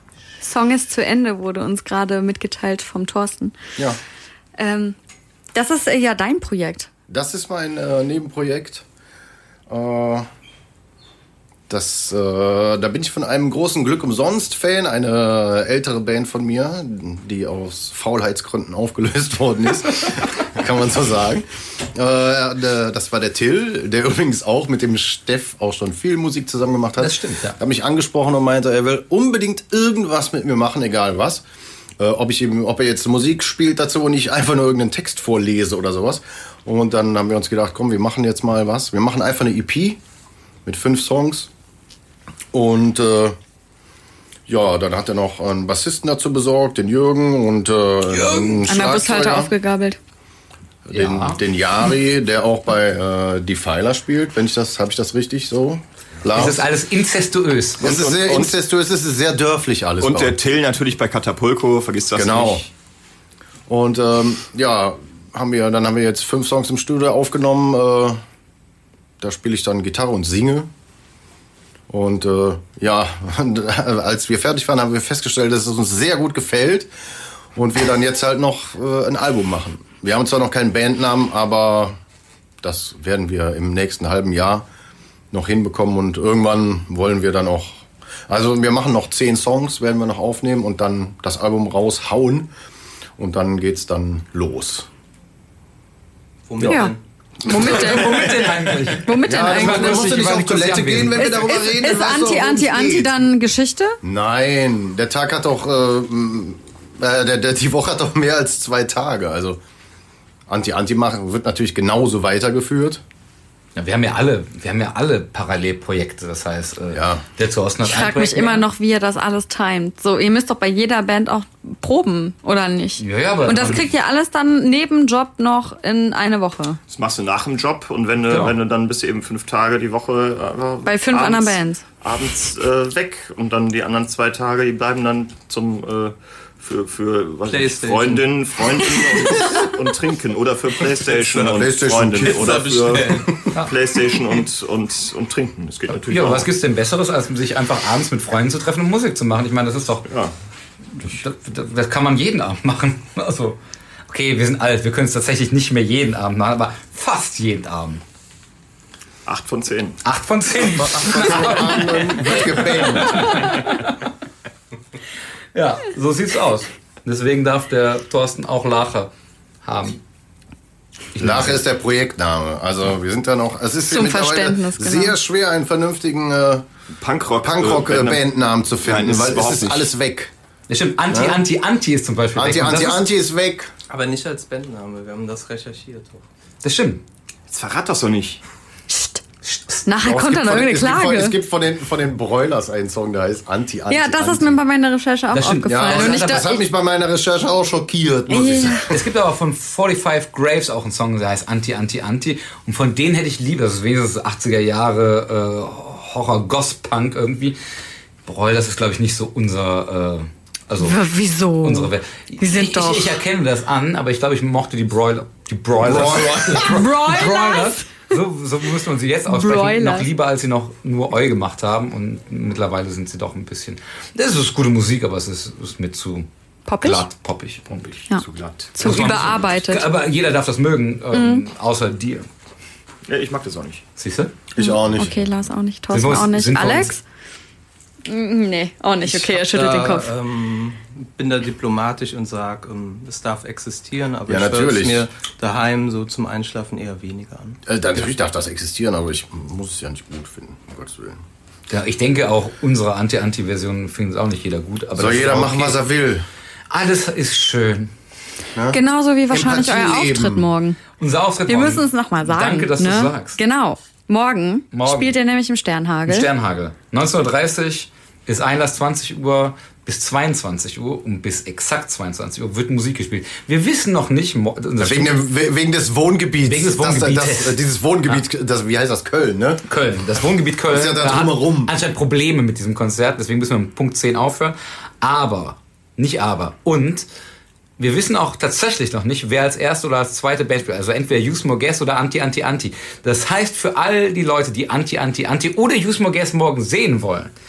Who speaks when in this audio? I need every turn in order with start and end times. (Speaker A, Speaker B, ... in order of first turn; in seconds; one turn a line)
Speaker A: 0.4-3.5
Speaker A: 4.6-5.0
Speaker A: 5.5-6.9
Speaker B: 7.1-8.8
Speaker B: 9.7-10.3
Speaker B: 11.7-31.4
Speaker C: 27.0-27.6
Speaker B: 32.0-40.0
Speaker B: 40.6-41.5
Speaker B: 42.5-43.4
Speaker B: 44.5-49.5
Speaker A: 48.7-50.0
Speaker B: 50.8-56.6
Speaker C: 50.9-51.4
Speaker C: 56.3-58.0
Speaker B: 57.8-60.4
Speaker D: 57.8-58.5
Speaker D: 60.0-62.7
Speaker B: 62.1-62.6
Speaker B: 63.7-68.2
Speaker B: 69.2-70.7
Speaker B: 71.9-76.9
Speaker B: 77.5-82.0
Speaker B: 82.6-84.6
Speaker B: 85.3-92.5
Speaker B: 93.2-94.9
Speaker E: 96.5-97.0
Speaker A: 96.6-98.3
Speaker C: 97.5-101.4
Speaker B: 97.5-98.3
Speaker A: 99.0-100.1
Speaker B: 99.2-103.3
Speaker A: 101.2-104.0
Speaker B: 104.0-109.6
Speaker B: 110.5-113.0
Speaker C: 113.8-118.7
Speaker B: 116.9-117.2
Speaker A: 117.8-126.8
Speaker C: 123.0-123.9
Speaker D: 126.9-146.5
Speaker C: 128.3-128.6
Speaker A: 130.8-131.8
Speaker E: 137.5-138.3
Speaker E: 141.1-141.6
Speaker B: 141.4-143.1
Speaker E: 142.1-143.3
Speaker C: 145.9-150.1
Speaker D: 150.1-150.3
Speaker C: 150.9-158.0
Speaker D: 159.2-160.0
Speaker C: 160.0-164.1
Speaker B: 160.7-163.4
Speaker C: 165.5-169.1
Speaker C: 169.6-170.0
Speaker C: 171.1-171.6
Speaker B: 171.2-176.7
Speaker A: 173.9-175.2
Speaker D: 176.9-178.3
Speaker B: 177.4-180.3
Speaker D: 178.8-179.9
Speaker C: 180.7-183.0
Speaker B: 181.1-181.4
Speaker B: 182.3-183.7
Speaker E: 183.9-186.2
Speaker C: 186.6-187.0
Speaker D: 187.5-188.4
Speaker A: 188.9-189.2
Speaker C: 189.4-190.3
Speaker A: 189.8-191.4
Speaker B: 190.0-194.6
Speaker A: 193.9-196.6
Speaker C: 195.3-196.6
Speaker B: 195.7-199.1
Speaker A: 198.3-198.8
Speaker C: 198.9-207.6
Speaker C: 208.2-211.0
Speaker A: 210.8-213.2
Speaker C: 211.6-226.3
Speaker B: 215.8-216.9
Speaker A: 216.5-217.9
Speaker A: 219.3-220.1
Speaker A: 226.7-227.0
Speaker C: 226.8-228.1
Speaker A: 228.1-229.8
Speaker D: 228.2-229.4
Speaker C: 228.8-232.3
Speaker A: 231.1-231.4
Speaker D: 233.1-233.8
Speaker C: 234.0-234.3
Speaker B: 234.5-235.2
Speaker A: 234.6-237.0
Speaker C: 235.9-236.9
Speaker A: 238.1-240.1
Speaker E: 239.0-247.6
Speaker B: 244.3-245.1
Speaker B: 247.7-251.2
Speaker C: 251.7-255.8
Speaker B: 254.9-256.2
Speaker C: 256.7-257.9
Speaker A: 258.7-260.8
Speaker B: 259.3-260.5
Speaker C: 261.0-263.4
Speaker A: 261.5-266.3
Speaker C: 264.7-265.1
Speaker C: 266.1-275.2
Speaker B: 274.8-279.6
Speaker C: 276.5-277.6
Speaker C: 279.6-287.1
Speaker B: 280.7-281.7
Speaker C: 287.8-297.3